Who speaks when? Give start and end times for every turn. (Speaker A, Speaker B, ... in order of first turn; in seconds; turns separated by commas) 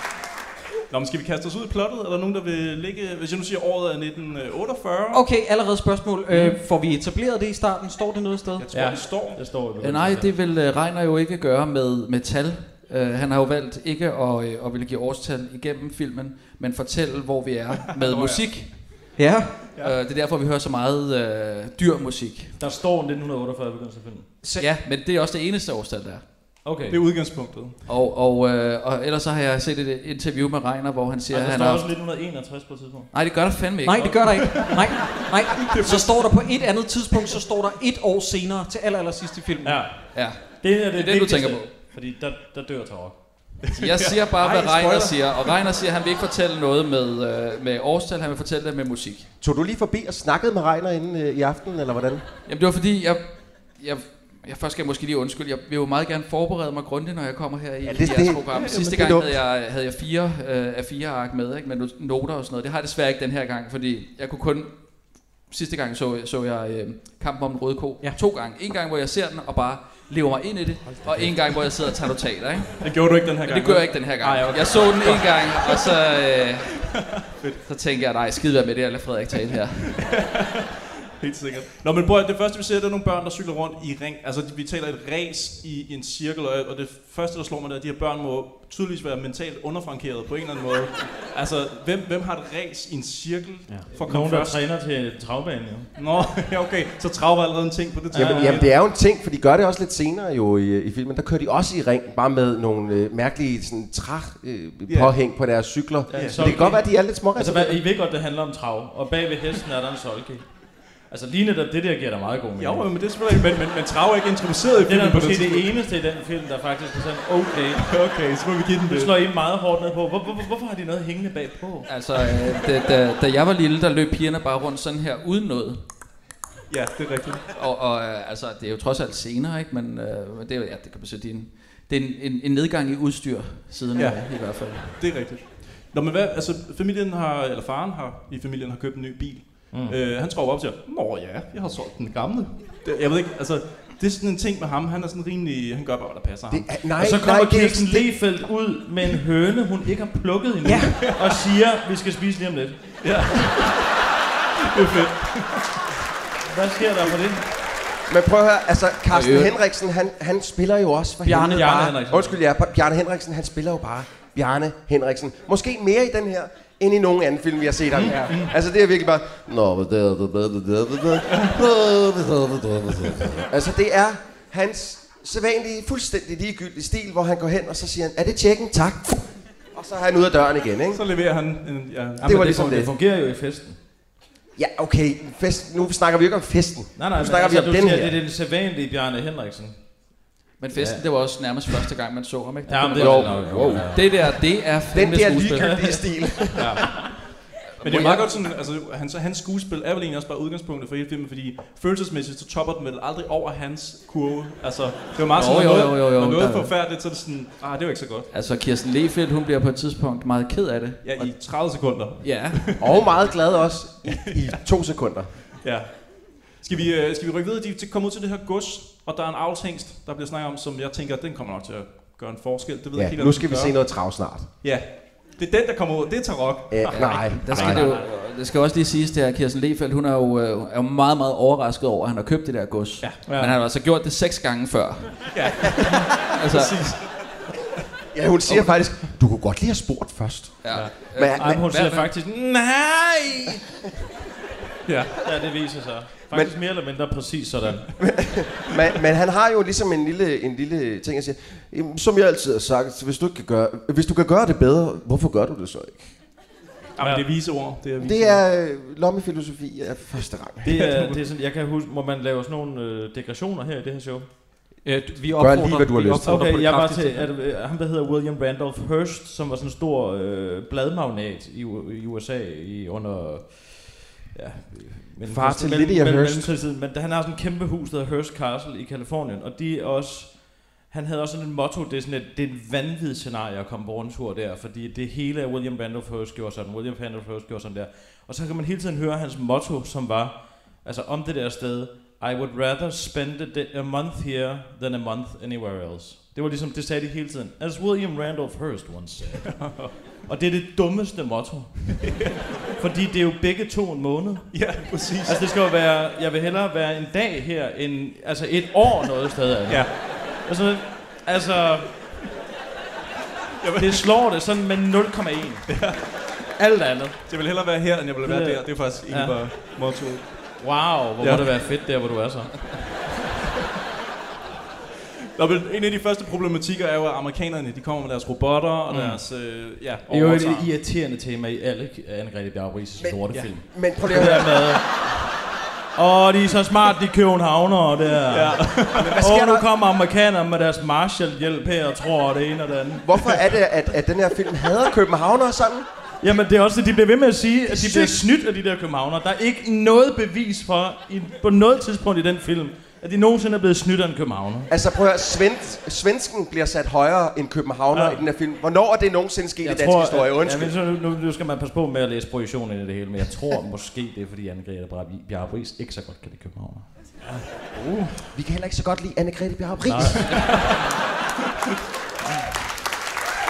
Speaker A: 0.9-5.2, Speaker B: 5.1-8.7, Speaker C: 6.3-6.6, Speaker A: 8.6-9.5, Speaker C: 8.7-10.4, Speaker D: 9.8-19.1, Speaker A: 17.9-18.9, Speaker B: 19.2-19.6, Speaker D: 19.8-22.6, Speaker C: 22.6-24.4, Speaker B: 24.4-24.7, Speaker D: 24.6-26.5, Speaker C: 26.6-27.5, Speaker A: 26.9-27.8, Speaker D: 27.9-31.9, Speaker C: 31.3-33.1, Speaker D: 33.1-34.3, Speaker B: 33.8-39.8, Speaker C: 34.0-34.5, Speaker A: 34.4-34.8, Speaker A: 35.6-36.5, Speaker C: 39.6-43.6, Speaker D: 40.1-41.8, Speaker A: 43.6-45.6, Speaker D: 43.8-49.3, Speaker E: 49.4-52.2, Speaker D: 52.5-72.9, Speaker E: 57.8-59.4, Speaker A: 58.5-58.9, Speaker C: 71.0-71.3, Speaker A: 72.8-76.0, Speaker D: 73.4-77.1, Speaker A: 77.3-77.6, Speaker D: 77.6-80.0, Speaker A: 79.9-94.6, Speaker C: 93.7-95.9, Speaker A: 96.0-98.7, Speaker C: 98.1-98.7, Speaker E: 98.1-107.8, Speaker A: 104.9-105.1, Speaker C: 106.1-110.5, Speaker A: 106.1-106.8, Speaker C: 111.0-113.0, Speaker A: 112.6-115.7, Speaker C: 114.8-118.0, Speaker A: 117.8-119.1, Speaker C: 118.9-121.9, Speaker D: 121.9-125.8, Speaker A: 126.7-127.4, Speaker D: 127.5-135.0, Speaker A: 133.9-146.7, Speaker C: 139.7-140.0, Speaker E: 146.5-148.1, Speaker C: 147.0-152.8, Speaker B: 150.6-150.9, Speaker A: 151.0-151.3, Speaker A: 153.0-153.9, Speaker A: 154.7-155.7, Speaker C: 156.5-157.4, Speaker E: 158.1-181.0, Speaker D: 159.1-159.5, Speaker B: 161.2-161.7, Speaker C: 161.5-162.4, Speaker C: 167.9-168.5, Speaker A: 180.9-182.8, Speaker E: 182.2-182.9, Speaker C: 182.3-183.8, Speaker E: 184.6-188.2, Speaker C: 186.9-190.1, Speaker D: 190.6-196.0, Speaker C: 190.7-191.8, Speaker C: 192.6-194.5, Speaker E: 192.9-194.1, Speaker E: 194.9-197.0, Speaker C: 195.5-196.0, Speaker A: 196.6-196.9, Speaker A: 197.8-208.3, Speaker E: 197.8-198.3, Speaker D: 197.9-198.2, Speaker D: 205.3-206.7, Speaker D: 208.3-212.8, Speaker A: 211.0-213.3, Speaker E: 212.8-215.3, Speaker A: 214.1-214.6, Speaker A: 215.6-223.9, Speaker E: 222.9-224.5, Speaker A: 224.6-228.0, Speaker E: 226.7-227.8, Speaker D: 226.9-237.1, Speaker A: 233.0-233.6, Speaker A: 235.3-237.2, Speaker E: 238.1-241.6, Speaker D: 240.6-242.1, Speaker C: 240.7-243.6, Speaker A: 244.8-245.2, Speaker C: 245.2-247.9, Speaker E: 248.0-256.1, Speaker A: 257.0-258.4, Speaker C: 257.0-257.3, Speaker E: 258.0-260.7, Speaker C: 260.6-264.3, Speaker A: 260.7-261.2, Speaker B: 264.8-267.3, Speaker E: 265.3-266.4, Speaker C: 266.2-302.1, Speaker E: 275.2-276.5, Speaker A: 299.5-299.9, Speaker A: 302.0-302.4, Speaker C: 302.8-312.1, Speaker A: 304.5-305.4, Speaker A: 309.7-310.2, Speaker A: 313.6-314.0, Speaker C: 313.8-315.7, Speaker A: 315.7-316.0, Speaker C: 316.6-317.2, Speaker A: 317.3-320.5, Speaker C: 318.2-319.5, Speaker C: 320.6-322.7, Speaker A: 321.2-321.7, Speaker A: 325.4-330.7, Speaker C: 328.9-329.2, Speaker C: 330.1-335.0, Speaker E: 333.0-334.7, Speaker C: 335.9-343.1, Speaker A: 338.3-339.2, Speaker E: 339.0-339.6, Speaker E: 343.0-345.9, Speaker C: 346.2-354.7, Speaker E: 347.7-348.3, Speaker E: 354.7-360.8, Speaker C: 357.9-358.2, Speaker C: 359.6-366.9, Speaker E: 368.3-370.4, Speaker C: 369.9-370.5, Speaker A: 370.3-370.6